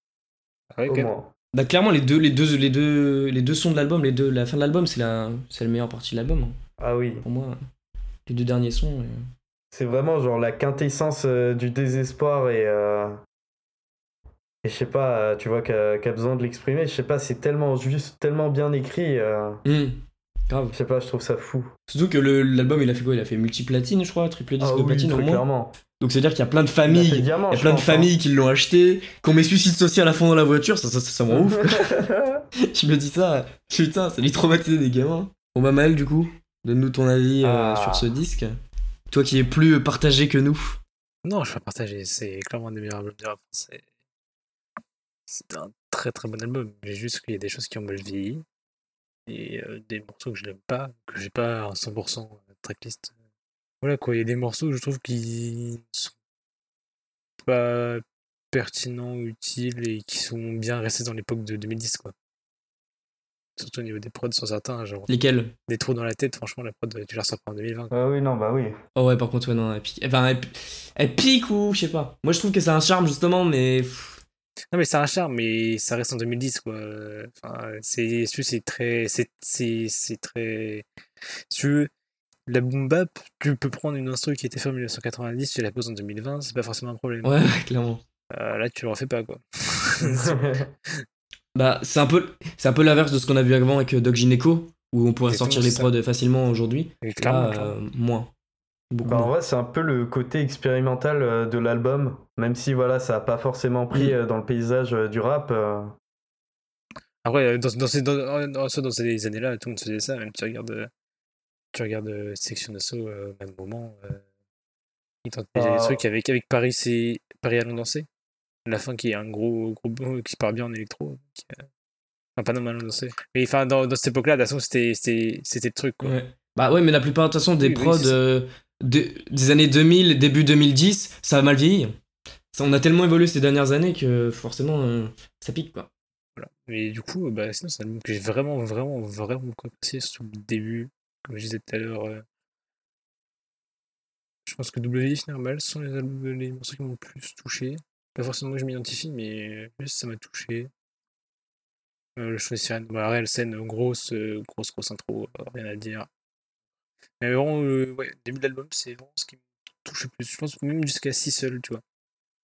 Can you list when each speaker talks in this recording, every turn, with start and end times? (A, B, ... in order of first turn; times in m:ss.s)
0:00.7-0:01.1 A
0:00.9-0:01.3 B
0:01.5-0:06.6 C
0:06.8-0:07.2 B
0:07.2-0:07.6 C
0:08.3-0:09.2 C
0:09.7-0:13.2 B
0:14.6-0:19.6 B
0:19.6-0:20.8 C
0:20.7-0:21.7 B
0:21.9-0:25.4 C
0:24.6-0:25.7 B
0:26.0-0:38.5 C
0:26.9-0:28.1 B
0:31.3-0:32.4 B
0:37.4-0:38.1 B
0:39.1-0:40.8 C
0:41.2-0:43.9 A
0:45.3-0:48.4 A
0:49.3-0:53.1 A
0:53.8-0:56.2 A
0:57.5-1:02.1 A
1:03.6-1:05.1 A
1:05.1-1:05.5 C
1:05.7-1:07.9 A
1:07.9-1:08.8 B
1:08.9-1:14.2 C
1:14.7-1:20.8 A
1:21.5-1:21.9 A
1:22.5-1:27.4 A
1:27.2-1:28.0 C
1:28.3-1:30.4 A
1:30.0-1:30.7 B
1:31.5-1:38.3 C
1:35.3-1:35.9 A
1:37.0-1:37.7 A
1:38.9-1:39.3 C
1:39.0-1:45.9 B
1:47.2-1:50.9 A
1:51.7-1:54.2 A
1:55.2-1:58.1 A
1:55.5-1:56.0 B
1:58.6-2:01.6 A
2:02.4-2:06.2 A
2:06.0-2:12.0 C
2:07.6-2:08.2 A
2:12.5-2:15.9 C
2:16.4-2:22.2 A
2:24.4-2:30.7 A
2:32.2-2:36.1 A
2:37.2-2:41.8 A